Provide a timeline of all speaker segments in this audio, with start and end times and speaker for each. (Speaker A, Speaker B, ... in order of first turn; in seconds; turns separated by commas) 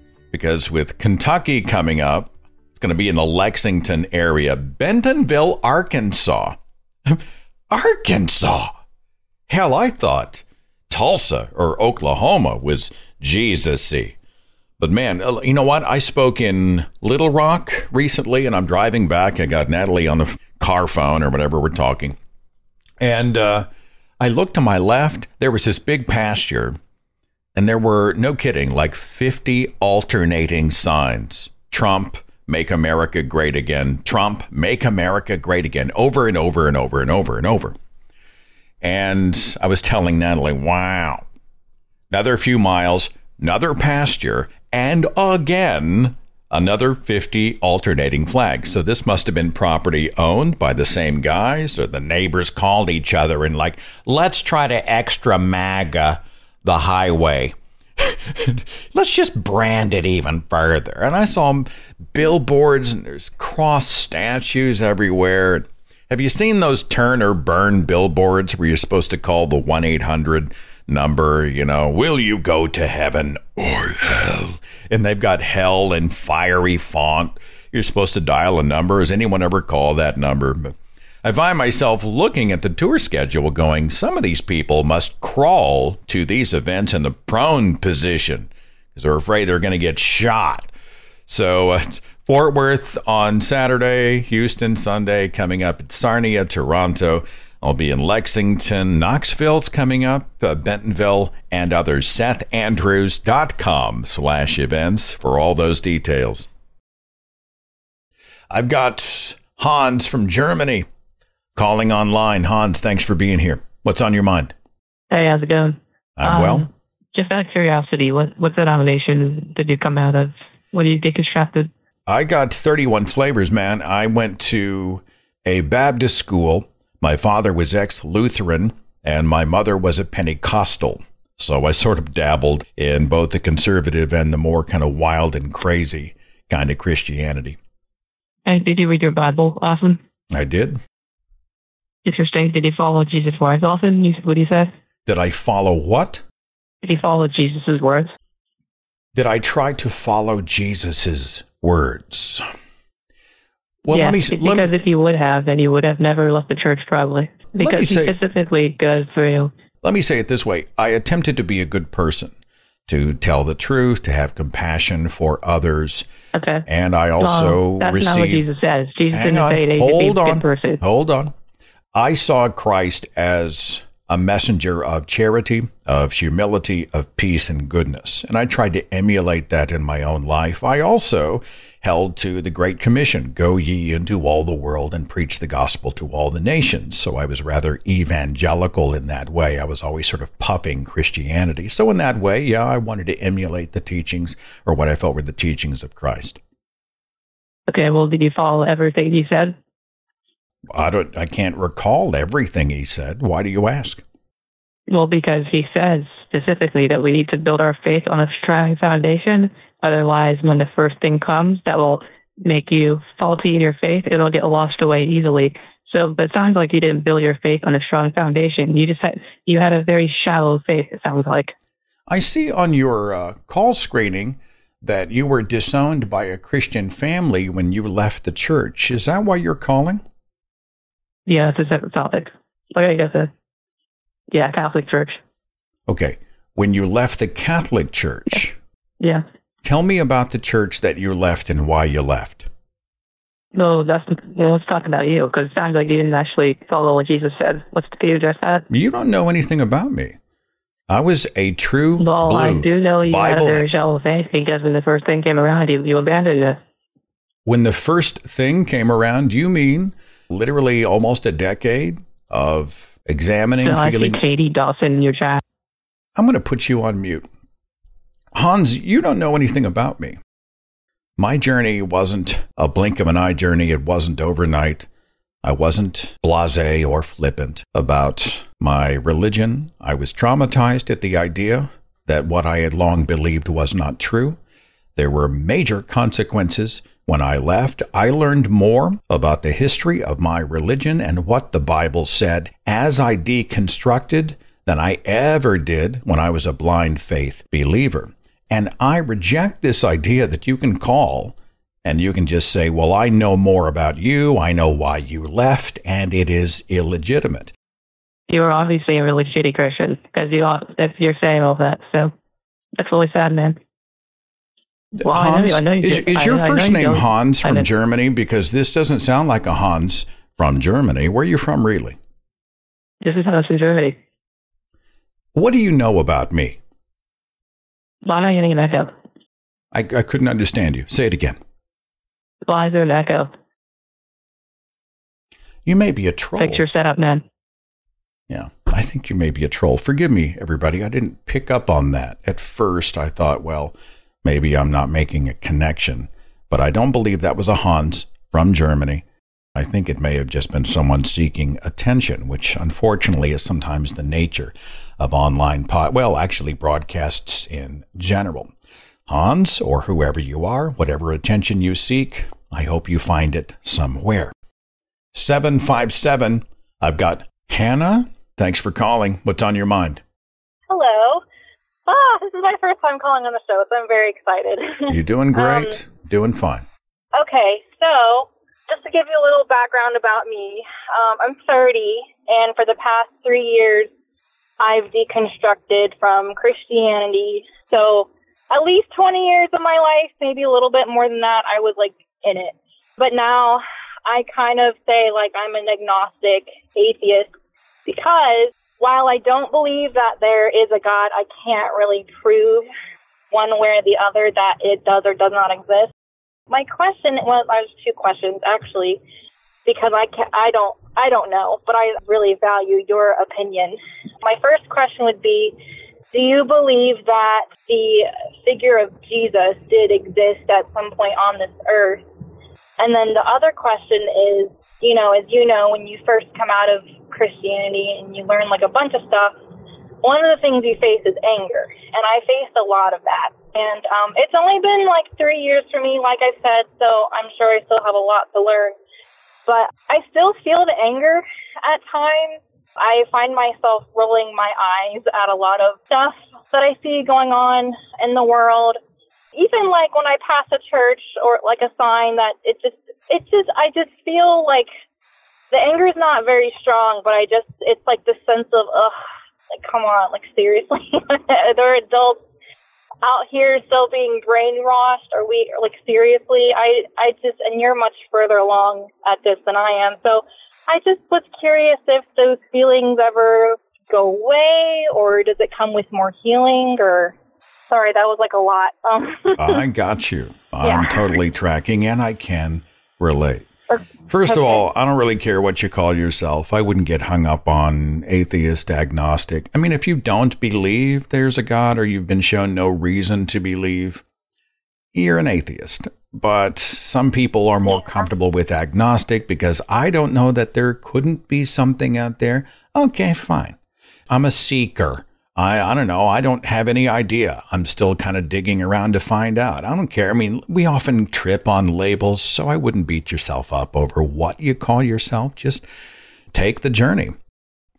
Speaker A: 0.3-8.7, Speaker A: 9.5-14.2, Speaker A: 14.8-22.2, Speaker A: 23.0-23.7, Speaker A: 24.2-26.8, Speaker A: 27.6-37.8, Speaker A: 38.8-41.3, Speaker A: 42.1-90.7, Speaker A: 91.3-106.5, Speaker A: 108.5-110.9, Speaker A: 111.5-114.5, Speaker B: 115.1-121.7, Speaker A: 116.2-116.7, Speaker A: 122.1-137.6, Speaker B: 138.4-140.0, Speaker A: 140.3-140.8, Speaker B: 142.1-144.7, Speaker A: 145.1-146.2, Speaker B: 146.8-148.1, Speaker A: 149.2-152.4, Speaker A: 153.8-154.7, Speaker B: 153.9-159.5, Speaker A: 157.6-158.1, Speaker A: 159.8-162.3, Speaker A: 162.9-166.1, Speaker B: 166.3-166.7, Speaker A: 166.7-168.4, Speaker B: 167.2-170.8, Speaker A: 169.1-171.3, Speaker A: 171.9-196.4, Speaker B: 197.7-199.6, Speaker A: 200.7-204.0, Speaker B: 204.9-221.5, Speaker A: 222.1-230.0, Speaker B: 231.3-233.3, Speaker B: 234.3-235.2, Speaker A: 235.9-238.6, Speaker A: 239.6-242.5, Speaker B: 243.5-248.7, Speaker A: 248.7-250.2, Speaker A: 250.9-253.7, Speaker B: 252.0-256.6, Speaker A: 257.5-264.2, Speaker B: 263.6-265.4, Speaker A: 266.2-267.3, Speaker A: 268.3-270.2, Speaker A: 271.2-274.9, Speaker A: 275.4-284.4, Speaker A: 285.0-307.5, Speaker B: 308.3-312.1, Speaker B: 312.8-313.6, Speaker B: 315.0-317.7, Speaker A: 315.1-322.0, Speaker B: 323.0-324.0, Speaker A: 325.3-326.6, Speaker B: 328.0-328.9, Speaker A: 329.7-331.4, Speaker B: 332.4-333.3, Speaker A: 335.6-336.6, Speaker B: 336.4-337.2, Speaker A: 338.3-358.5, Speaker A: 359.1-364.3, Speaker A: 365.1-370.0, Speaker C: 370.7-371.2, Speaker C: 371.9-375.8, Speaker A: 374.9-376.7, Speaker C: 377.1-383.9, Speaker C: 384.6-397.3, Speaker C: 397.9-402.7, Speaker C: 403.3-405.9, Speaker C: 406.5-409.0, Speaker C: 409.6-415.6, Speaker C: 416.1-422.0, Speaker C: 422.8-429.4, Speaker C: 430.0-438.8, Speaker C: 439.5-448.8, Speaker C: 449.3-454.7, Speaker C: 455.5-459.0, Speaker C: 459.5-462.2, Speaker C: 463.0-477.1, Speaker C: 477.7-479.6, Speaker A: 479.4-483.5, Speaker C: 480.6-481.0, Speaker C: 483.7-484.6, Speaker A: 484.1-494.0, Speaker A: 494.9-503.6, Speaker A: 504.1-515.6, Speaker A: 516.3-517.2